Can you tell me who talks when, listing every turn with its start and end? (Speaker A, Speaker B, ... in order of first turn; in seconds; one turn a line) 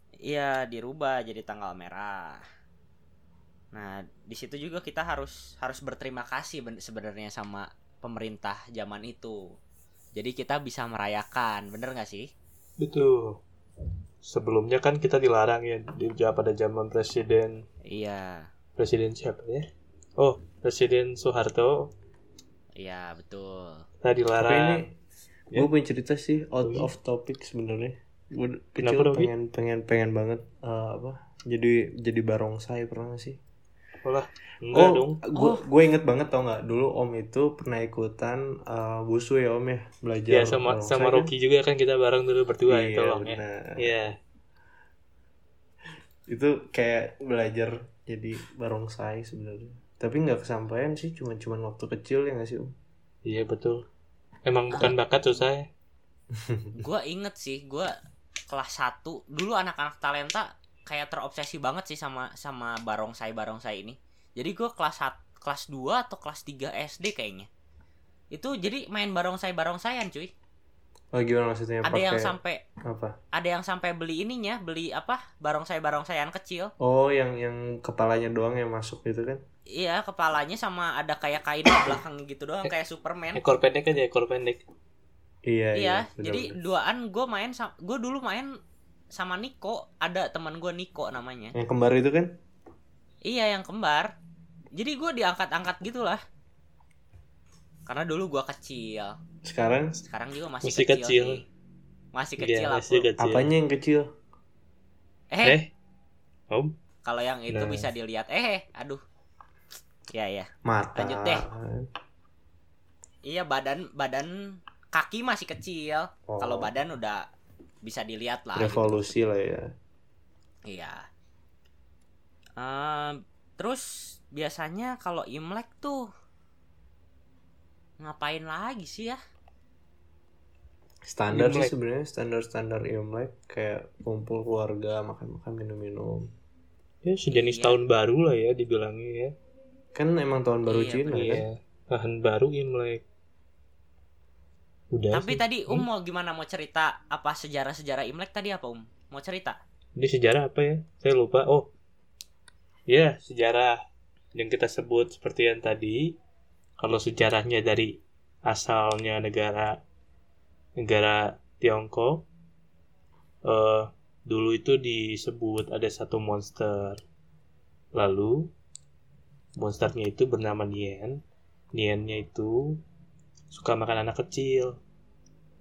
Speaker A: 0.3-2.4
Speaker A: 3.7-9.4
Speaker A: 10.2-12.3
Speaker B: 12.8-13.4
Speaker B: 14.2-17.6
Speaker A: 17.9-18.5
Speaker B: 18.8-19.7
Speaker B: 20.2-21.9
Speaker A: 22.8-23.8
Speaker B: 24.0-24.9
Speaker C: 24.4-25.0
Speaker C: 25.5-33.4
Speaker B: 26.6-26.9
Speaker B: 28.8-29.3
Speaker B: 34.0-35.2
Speaker C: 34.7-41.3
Speaker A: 35.4-35.6
Speaker B: 40.3-44.1
Speaker C: 42.7-43.9
Speaker C: 46.3-52.7
Speaker B: 53.2-53.9
Speaker B: 54.5-55.7
Speaker A: 54.7-55.0
Speaker C: 56.3-56.8
Speaker A: 56.8-57.9
Speaker A: 58.5-67.5
Speaker A: 68.3-70.3
Speaker C: 71.1-72.4
Speaker A: 71.8-72.6
Speaker C: 72.9-73.1
Speaker A: 73.3-76.7
Speaker C: 76.8-79.4
Speaker A: 79.8-83.4
Speaker B: 83.3-84.6
Speaker C: 85.5-86.5
Speaker A: 85.8-88.5
Speaker A: 89.1-91.5
Speaker C: 91.5-92.4
Speaker A: 93.3-94.1
Speaker A: 94.8-96.2
Speaker A: 97.9-99.2
Speaker C: 99.4-100.0
Speaker A: 100.0-101.4
Speaker B: 100.6-101.4
Speaker A: 102.1-103.1
Speaker B: 102.4-103.5
Speaker C: 103.2-104.1
Speaker A: 105.3-105.6
Speaker B: 105.4-105.7
Speaker A: 107.0-109.0
Speaker B: 107.5-107.9
Speaker A: 110.1-111.4
Speaker C: 110.7-111.9
Speaker A: 113.2-114.3
Speaker A: 114.9-117.2
Speaker C: 116.3-116.8
Speaker A: 117.8-118.9
Speaker C: 118.5-119.7
Speaker A: 120.7-121.0
Speaker A: 122.6-126.0
Speaker A: 128.0-129.2
Speaker C: 131.1-136.3
Speaker B: 131.3-131.7
Speaker B: 137.0-139.3
Speaker A: 137.3-137.8
Speaker C: 139.9-141.4
Speaker A: 140.7-141.3
Speaker B: 141.2-143.0
Speaker B: 144.9-145.9
Speaker A: 145.1-149.6
Speaker B: 150.0-151.7
Speaker B: 152.9-153.8
Speaker B: 154.3-156.2
Speaker B: 156.8-159.8
Speaker B: 160.8-162.3
Speaker B: 163.4-167.0
Speaker B: 167.9-168.5
Speaker B: 169.6-171.2
Speaker B: 171.7-172.8
Speaker B: 173.5-174.8